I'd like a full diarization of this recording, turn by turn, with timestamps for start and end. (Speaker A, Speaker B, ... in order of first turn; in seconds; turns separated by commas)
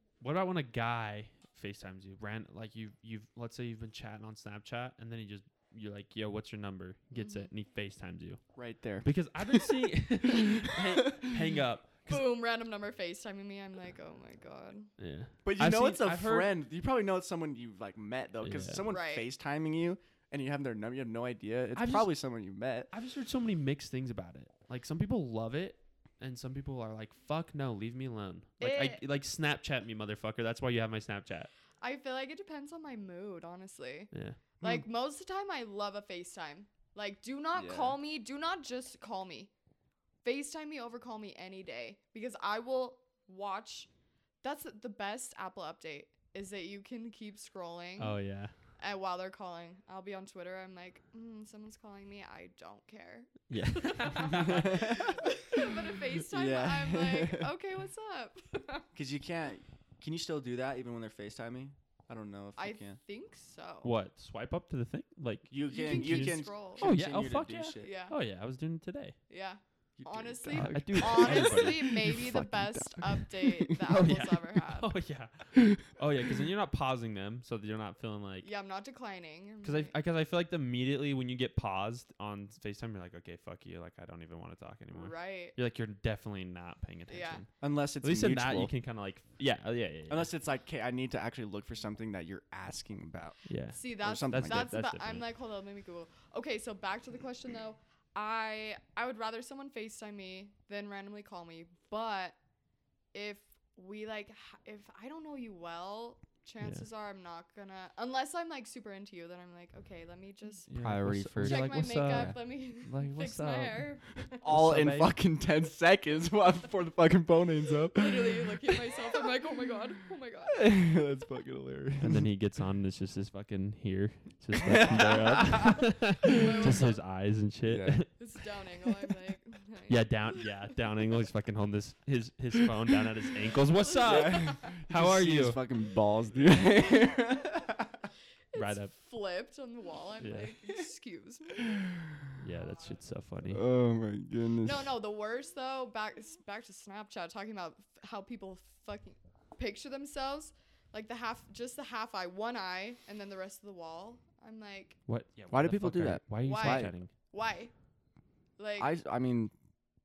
Speaker A: 0.2-8.4, Speaker B: 7.1-7.5, Speaker C: 8.6-9.7, Speaker A: 9.0-12.2, Speaker C: 10.3-11.3, Speaker B: 12.1-14.9, Speaker A: 15.0-16.5, Speaker C: 15.4-22.9, Speaker A: 18.4-18.8, Speaker B: 18.9-19.3, Speaker A: 21.7-22.1, Speaker A: 22.9-31.5, Speaker B: 28.6-29.0, Speaker B: 31.8-39.5, Speaker A: 34.1-34.4, Speaker C: 37.5-38.0, Speaker B: 40.2-43.9, Speaker B: 44.4-48.2, Speaker A: 48.0-48.5, Speaker B: 48.8-58.9, Speaker A: 53.5-54.9, Speaker C: 54.3-55.7, Speaker C: 56.2-57.5, Speaker C: 58.9-63.0, Speaker B: 62.6-63.9, Speaker A: 63.8-69.2, Speaker C: 65.5-67.9, Speaker B: 65.7-66.9, Speaker B: 67.8-68.1, Speaker B: 69.3-74.9, Speaker C: 70.0-73.9, Speaker A: 70.5-71.8, Speaker A: 73.8-78.5, Speaker B: 78.4-79.9, Speaker A: 79.6-87.5, Speaker B: 84.9-85.5, Speaker B: 87.1-87.4, Speaker C: 87.6-88.7, Speaker A: 88.0-90.3, Speaker C: 90.1-93.4, Speaker A: 93.5-95.2, Speaker B: 93.7-102.3, Speaker C: 94.0-94.7, Speaker B: 103.1-110.7, Speaker A: 106.6-106.9, Speaker A: 110.7-113.8, Speaker C: 110.7-112.4, Speaker B: 111.4-114.5, Speaker C: 114.4-119.2, Speaker A: 114.4-115.2, Speaker B: 117.9-120.7, Speaker C: 120.5-122.2, Speaker A: 122.0-128.1, Speaker C: 124.5-125.8, Speaker B: 126.3-127.0, Speaker C: 127.7-128.1, Speaker B: 128.2-130.4, Speaker A: 129.9-135.6, Speaker B: 133.8-134.8, Speaker C: 134.0-138.1, Speaker B: 138.5-141.8, Speaker A: 138.5-138.9, Speaker A: 140.2-140.5, Speaker C: 141.6-142.1, Speaker A: 142.4-143.6, Speaker C: 143.5-144.9, Speaker B: 144.6-155.0, Speaker A: 155.1-157.1, Speaker C: 155.5-156.9, Speaker B: 156.4-157.7, Speaker B: 158.6-158.9, Speaker C: 158.8-159.5